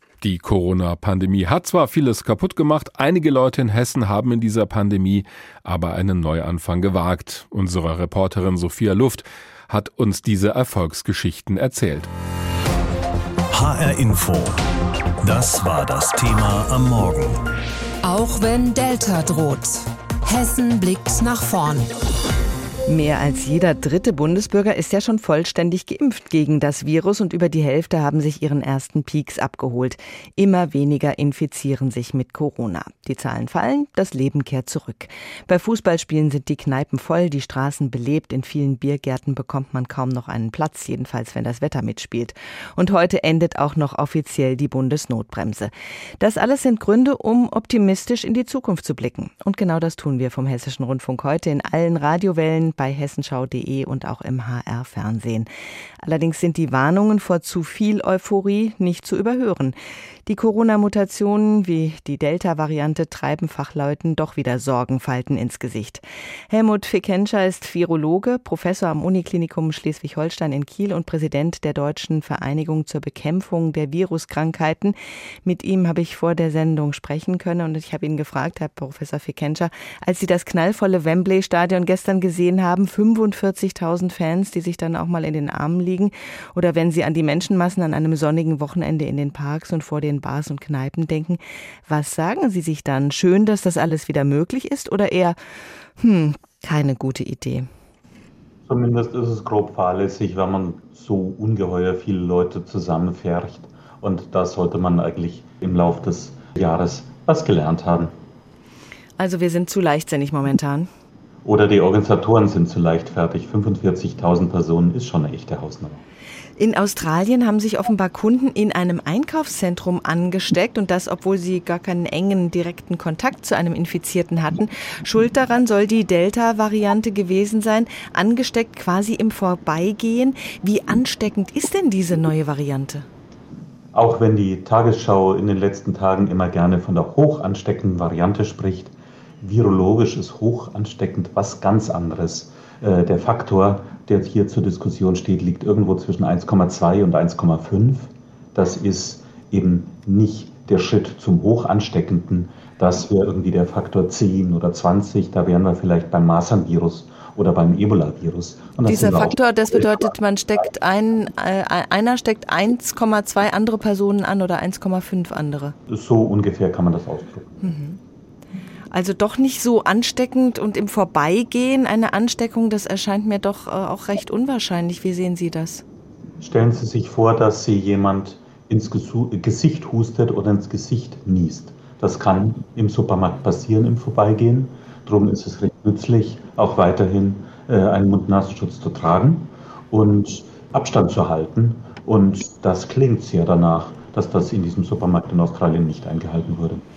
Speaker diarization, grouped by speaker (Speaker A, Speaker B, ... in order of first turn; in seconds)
Speaker A: 0.2-12.1
Speaker B: 13.5-14.6, 15.2-17.4
Speaker C: 18.0-21.9
Speaker D: 22.9-55.5, 56.0-95.4, 96.0-97.7, 109.2-110.9, 116.6-133.1, 158.8-165.8, 167.6-168.0, 168.9-175.8
Speaker E: 98.7-108.1, 111.5-116.0, 133.9-160.1, 165.9-167.6, 176.4-196.8